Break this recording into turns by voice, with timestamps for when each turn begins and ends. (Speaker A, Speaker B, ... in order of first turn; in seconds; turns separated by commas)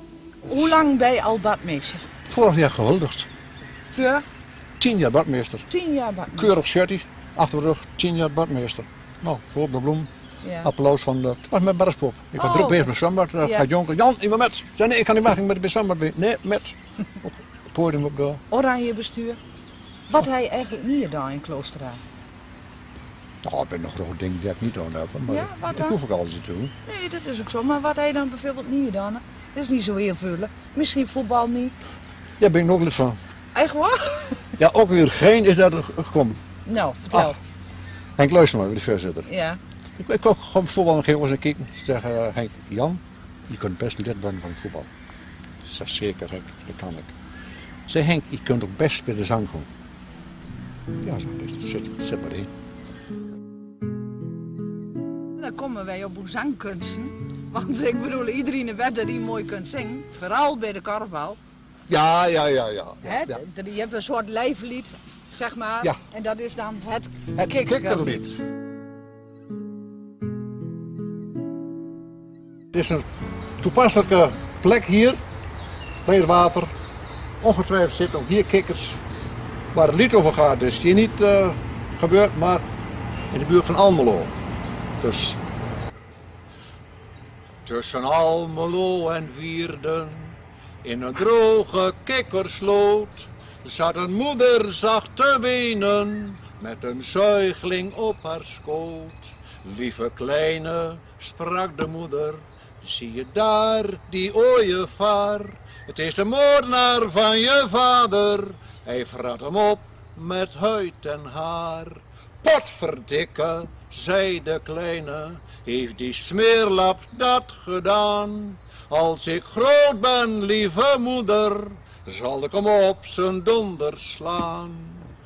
Speaker A: 0.4-2.1, Speaker B: 2.3-3.3, Speaker A: 3.9-4.3, Speaker B: 4.8-5.7, Speaker A: 5.7-6.6, Speaker B: 6.3-10.1, Speaker A: 10.4-10.7, Speaker B: 10.6-18.4, Speaker A: 12.4-12.9, Speaker A: 18.5-19.4, Speaker A: 20.1-22.0, Speaker B: 23.4-26.7, Speaker A: 25.3-26.0, Speaker A: 26.8-31.8, Speaker B: 32.4-33.2, Speaker A: 33.5-34.5, Speaker B: 34.6-36.4, Speaker A: 36.6-37.4, Speaker B: 38.2-39.3, Speaker A: 39.2-39.6, Speaker B: 40.0-44.9, Speaker B: 45.6-47.1, Speaker B: 47.9-49.7, Speaker B: 51.0-52.5, Speaker A: 55.4-61.4, Speaker B: 61.9-63.4, Speaker A: 63.0-68.2, Speaker B: 67.3-68.4, Speaker B: 72.7-73.1, Speaker B: 73.6-75.2, Speaker B: 76.0-76.7, Speaker B: 77.4-79.0, Speaker B: 79.7-82.7, Speaker B: 83.3-84.3, Speaker B: 85.0-85.4, Speaker B: 87.7-125.1